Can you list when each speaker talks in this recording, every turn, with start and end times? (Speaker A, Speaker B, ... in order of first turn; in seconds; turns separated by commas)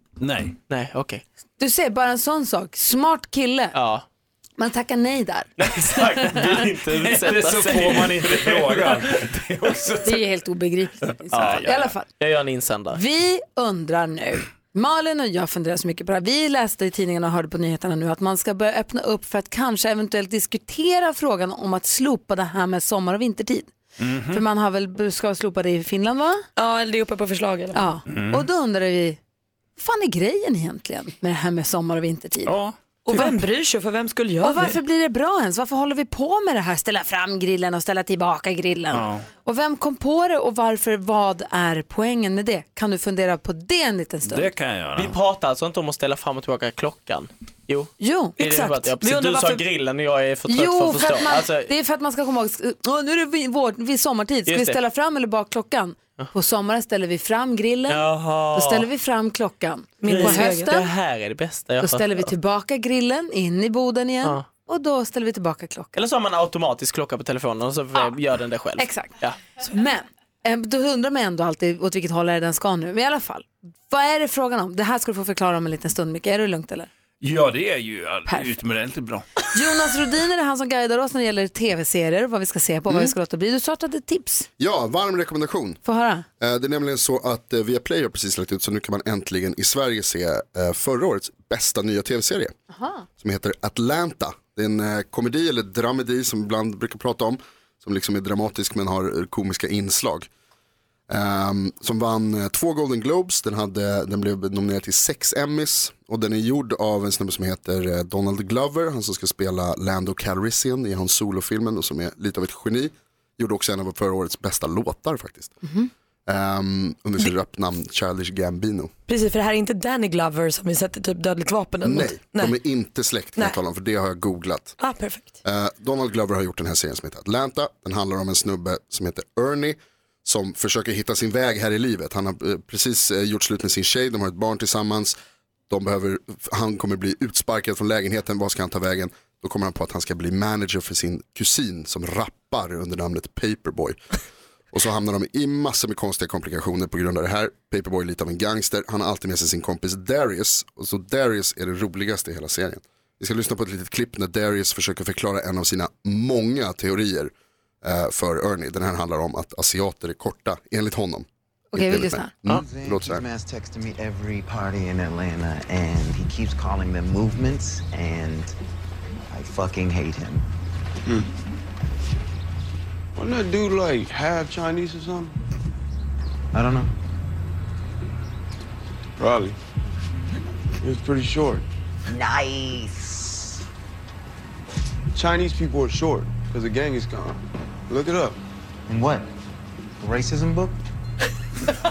Speaker A: 0.2-0.6, Speaker B: 0.7-1.2, Speaker C: 1.6-3.8, Speaker B: 3.7-4.0, Speaker C: 4.6-6.6, Speaker B: 5.6-9.1, Speaker A: 6.9-10.2, Speaker C: 10.0-12.1, Speaker B: 11.3-13.0, Speaker A: 11.3-11.9, Speaker C: 12.9-23.7, Speaker A: 24.0-24.4, Speaker C: 24.3-26.4, Speaker D: 26.6-27.9, Speaker C: 27.7-29.2, Speaker A: 28.1-28.5, Speaker C: 29.8-32.6, Speaker A: 32.5-33.2, Speaker D: 33.1-34.8, Speaker C: 34.4-44.5, Speaker A: 38.9-39.3, Speaker A: 44.2-45.1, Speaker B: 45.0-51.7, Speaker C: 48.0-48.4, Speaker D: 48.4-49.6, Speaker C: 50.5-60.9, Speaker B: 54.5-54.8, Speaker B: 57.9-58.9, Speaker D: 60.0-60.6, Speaker B: 60.0-62.3, Speaker C: 61.8-66.0, Speaker B: 66.0-69.4, Speaker C: 68.8-76.9, Speaker A: 77.2-79.3, Speaker C: 78.3-78.6, Speaker C: 79.5-84.5, Speaker E: 84.6-85.8, Speaker C: 85.8-86.3, Speaker E: 86.4-92.5, Speaker C: 92.7-93.0, Speaker E: 93.2-100.3, Speaker E: 101.1-115.6, Speaker E: 116.3-118.9, Speaker D: 119.1-122.6, Speaker E: 121.8-124.8, Speaker D: 124.8-125.3, Speaker E: 125.4-135.2, Speaker E: 135.7-144.0, Speaker E: 144.7-157.3, Speaker E: 157.8-163.3, Speaker C: 161.7-162.3, Speaker F: 162.5-168.6, Speaker F: 169.3-170.4, Speaker G: 173.2-175.3, Speaker F: 176.5-176.9, Speaker G: 179.2-179.6, Speaker G: 180.8-181.7, Speaker F: 182.1-183.6, Speaker G: 185.1-188.4, Speaker F: 188.9-189.3, Speaker F: 190.0-190.8